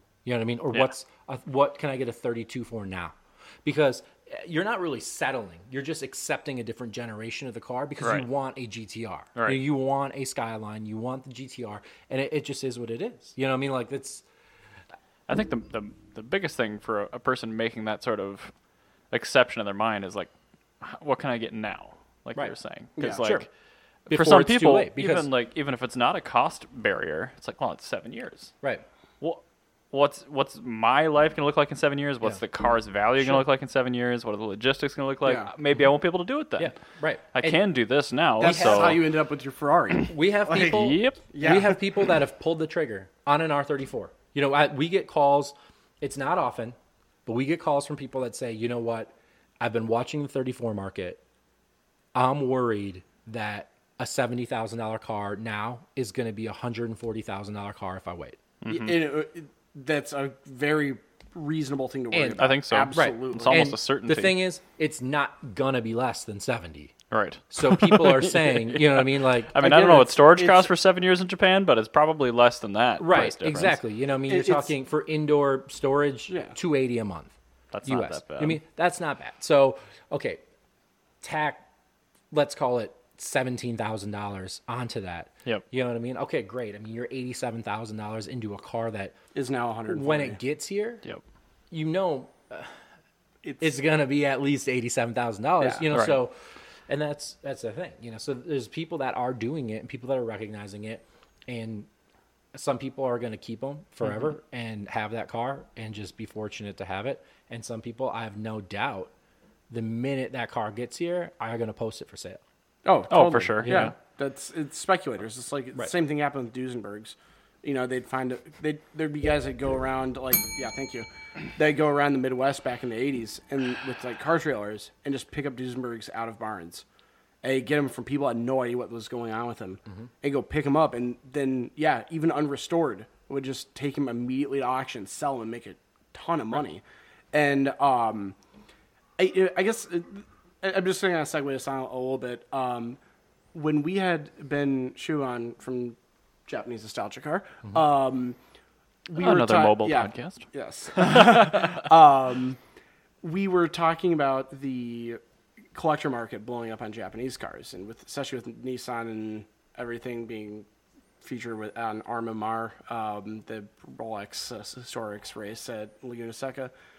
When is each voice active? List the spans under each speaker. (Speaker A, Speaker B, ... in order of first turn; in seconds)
Speaker A: 0.2-14.2, 22.4-23.4, 24.1-25.3, 36.6-37.6, 38.4-39.0, 40.1-51.2, 52.1-58.4, 62.1-66.9, 67.5-69.9, 73.0-77.3, 77.8-80.4, 81.2-81.6, 82.3-89.2, 89.9-91.0, 91.7-92.8, 93.6-96.3, 96.9-101.9, 102.5-109.1, 109.7-112.4, 113.6-113.9
Speaker B: 8.0-8.2, 9.4-9.6, 15.3-18.5, 19.1-23.5, 24.1-28.5, 29.2-36.7, 37.3-39.0, 40.5-41.2, 58.6-59.0, 62.4-64.4, 67.1-73.8, 77.7-78.6, 95.9-96.2, 113.1-113.9, 149.2-151.8
Speaker C: 23.0-23.3, 35.2-35.5, 38.4-41.8, 58.7-63.7, 69.6-70.7, 74.3-74.7, 76.3-76.5, 89.3-90.4, 93.4-93.7, 95.6-95.9, 112.8-126.9, 127.4-138.4, 139.2-143.0, 143.5-148.4, 149.1-152.6, 153.2-155.2, 155.7-160.7, 161.2-166.7